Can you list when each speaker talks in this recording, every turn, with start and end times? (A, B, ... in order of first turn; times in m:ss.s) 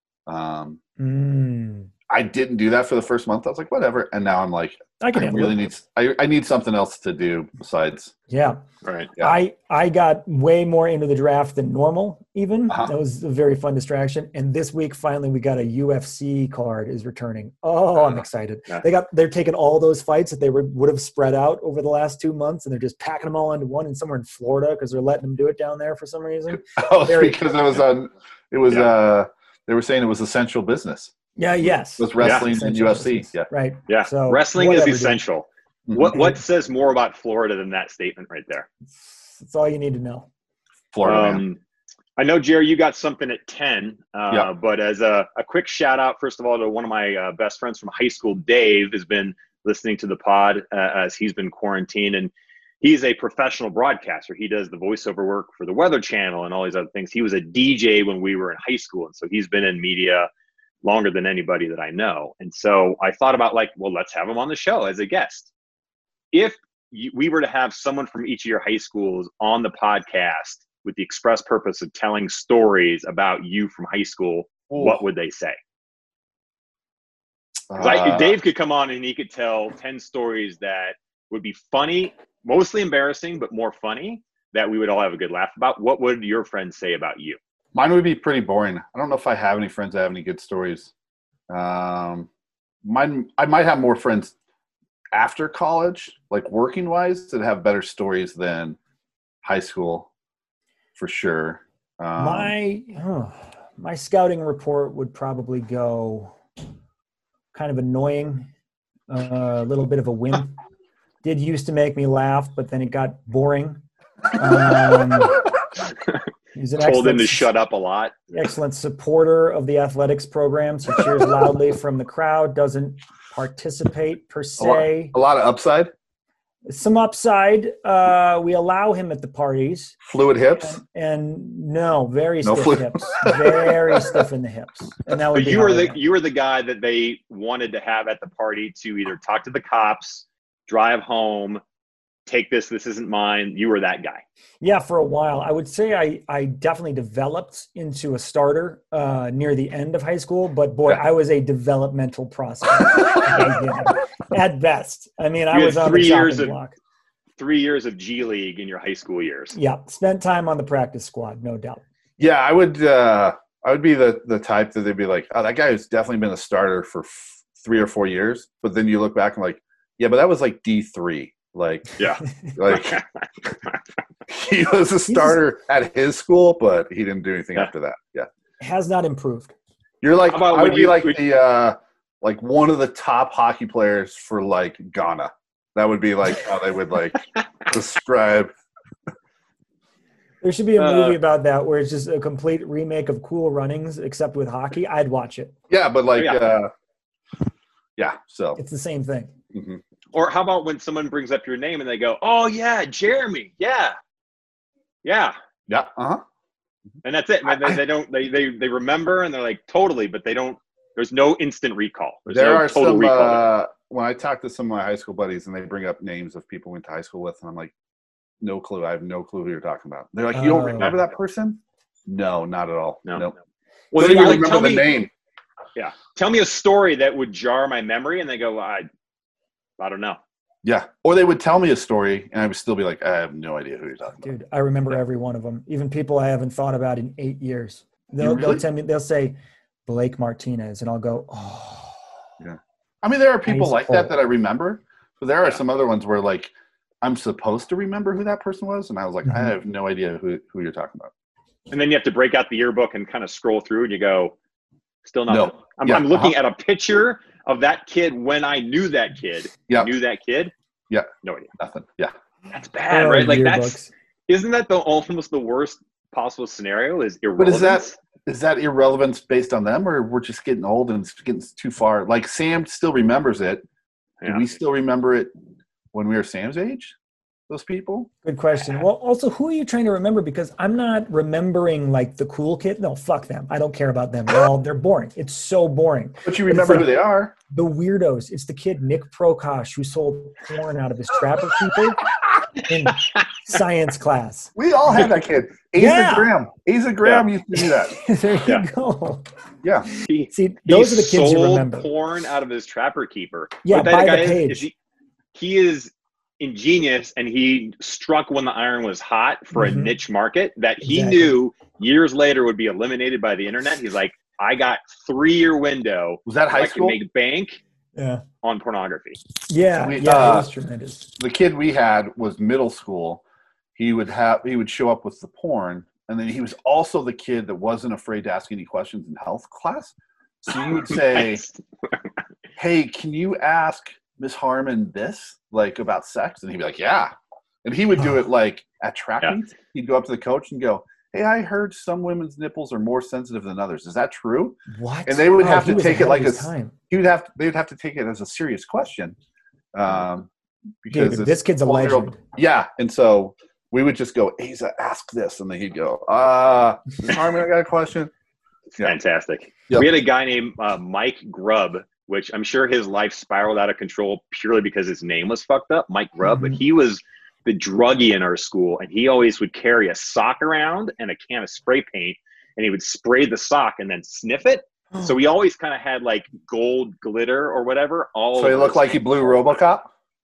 0:00.3-0:00.8 A
0:01.0-0:01.9 B
0:02.1-0:08.1 A
0:05.0-0:05.6 B
0:08.3-0:08.6 B
0:08.8-0:09.1 C
0:09.2-0:27.4 B
0:12.7-0:12.9 A
0:26.7-0:31.1 A
0:31.4-0:35.2 B
0:32.0-0:33.5 A
0:32.2-0:32.5 C
0:33.9-0:38.7 C
0:35.9-0:36.3 A
0:39.0-0:40.3 B
0:40.9-0:41.4 A
0:41.0-0:41.6 C
0:42.2-1:00.3 C
1:00.8-1:05.5 C
1:06.3-1:15.6 C
1:14.7-1:15.0 A
1:17.7-1:18.4 A
1:17.8-1:27.4 C
1:27.7-1:30.9 A
1:31.5-1:32.3 A
1:32.8-1:34.3 A
1:35.1-1:38.8 A
1:39.4-1:40.1 A
1:41.0-1:42.5 A
1:42.2-1:46.4 B
1:47.5-1:48.5 B
1:49.1-1:50.5 B
1:51.2-1:53.8 B
1:54.3-1:55.4 B
1:56.5-1:57.5 B
1:56.8-1:58.2 C
1:58.3-2:05.1 B
2:04.6-2:05.9 A
2:06.7-2:10.0 B
2:10.0-2:10.8 A
2:10.5-2:16.0 B
2:12.4-2:14.2 A
2:15.3-2:21.6 C
2:22.3-2:24.2 C
2:24.6-2:36.7 B
2:35.5-2:36.5 C
2:37.4-2:39.5 C
2:39.5-2:41.8 B
2:42.2-2:52.0 A
2:52.0-2:53.0 C
2:52.5-2:53.0 A
2:54.3-2:58.3 A
2:55.1-2:55.4 B
2:58.6-2:59.5 B
3:00.0-3:08.5 A
3:00.3-3:01.2 C
3:10.4-3:15.5 B
3:10.8-3:11.2 C
3:15.7-3:16.7 A
3:16.2-3:16.5 C
3:18.0-3:18.6 A
3:18.6-3:19.3 B
3:19.5-3:19.8 A
3:20.1-3:24.0 C
3:25.0-3:25.3 C
3:25.7-3:26.2 A
3:27.0-3:33.5 C
3:32.3-3:37.7 A
3:38.4-3:43.3 A
3:40.3-3:40.9 B
3:43.0-3:43.3 C
3:43.9-3:45.0 C
3:43.9-3:45.1 A
3:45.8-3:48.9 C
3:49.8-3:50.2 C
3:50.6-3:54.3 A
3:54.2-4:02.0 B
3:58.2-3:58.6 A
4:02.4-4:11.1 A
4:03.4-4:04.1 B
4:09.2-4:09.5 B
4:11.7-4:14.3 C
4:15.0-4:20.5 C
4:15.3-4:16.3 A
4:19.7-4:19.9 A
4:20.9-4:22.1 A
4:21.2-4:21.5 C
4:22.5-4:28.0 C
4:22.9-4:23.9 B
4:27.4-4:33.6 A
4:34.2-4:35.3 A
4:35.9-4:36.9 A
4:37.5-4:38.1 A
4:38.2-4:46.9 B
4:46.2-4:47.3 A
4:47.5-4:52.0 B
4:52.6-4:55.0 B
4:54.6-4:57.9 A
4:55.7-4:56.3 B
4:57.0-4:57.3 C
4:57.9-4:59.2 B
4:59.6-4:59.9 A
5:00.0-5:04.7 C
5:00.3-5:01.9 B
5:03.6-5:04.7 B
5:05.3-5:17.6 C
5:09.5-5:09.9 B
5:10.8-5:11.4 B
5:16.2-5:17.0 A
5:18.0-5:18.2 B
5:18.4-5:19.2 C
5:19.5-5:21.1 B
5:19.8-5:20.5 A
5:21.2-5:23.2 A
5:23.8-5:31.4 A
5:30.9-5:31.5 C
5:32.6-5:37.1 A
5:37.6-5:49.1 A
5:44.7-5:46.7 B
5:49.7-5:50.3 A
5:50.8-5:58.1 A
5:50.9-5:52.2 B
5:58.7-6:19.4 C
6:06.3-6:06.5 B
6:18.4-6:19.9 A